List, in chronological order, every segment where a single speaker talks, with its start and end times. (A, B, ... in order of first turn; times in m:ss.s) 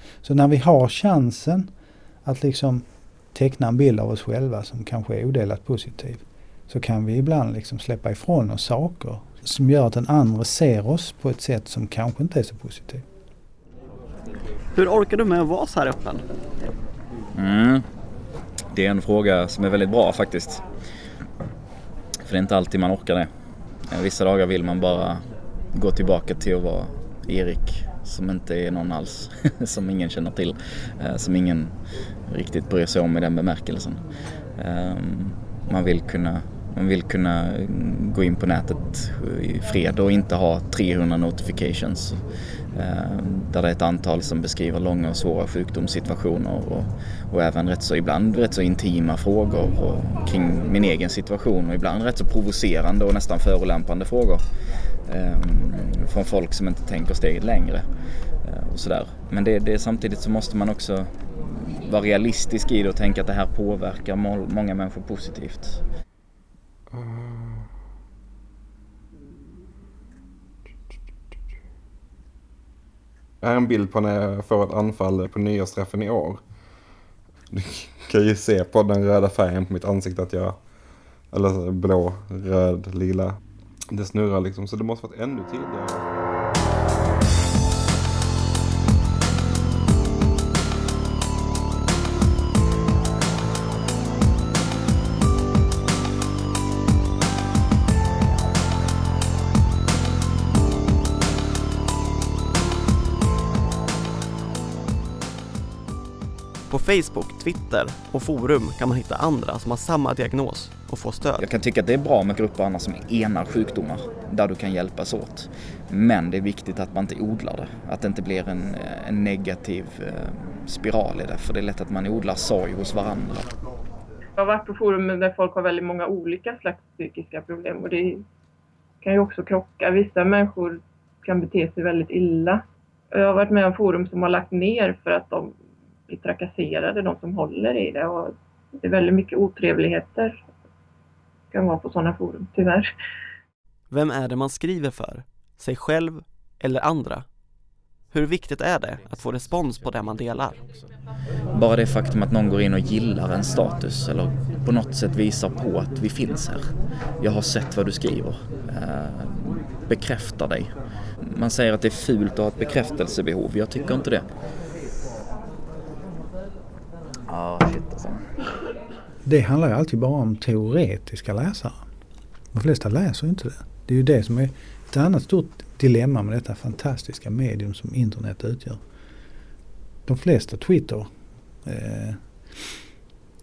0:00.2-0:01.7 A
0:02.2-0:13.0 A
0:14.7-0:16.2 B
0:17.3-0:17.8 C
0:18.7-0:20.6 C
0:22.2-0:23.3 C
0:23.9-0:25.2 C
0:25.7-0:31.8 C
0:32.3-0:34.0 C
0:34.6-0:42.2 C
0:42.7-0:54.4 C
0:55.1-0:57.9 C
0:58.4-1:05.8 C
1:06.9-1:07.7 D
1:13.4-1:16.4 D
1:17.5-1:20.6 D
1:21.3-1:23.4 D
1:23.9-1:26.0 D
1:46.7-1:51.5 B
1:51.4-2:03.5 C
2:04.4-2:08.2 E
2:09.0-2:15.5 E
2:16.1-2:20.4 E
2:21.5-2:22.9 E
2:23.9-2:27.2 B
2:28.1-2:30.6 B
2:31.5-2:36.7 C
2:37.2-2:44.2 C
2:47.3-2:48.3 C
2:49.2-2:51.8 A
2:52.5-2:58.8 A
3:00.0-3:01.1 A
3:01.6-3:02.8 A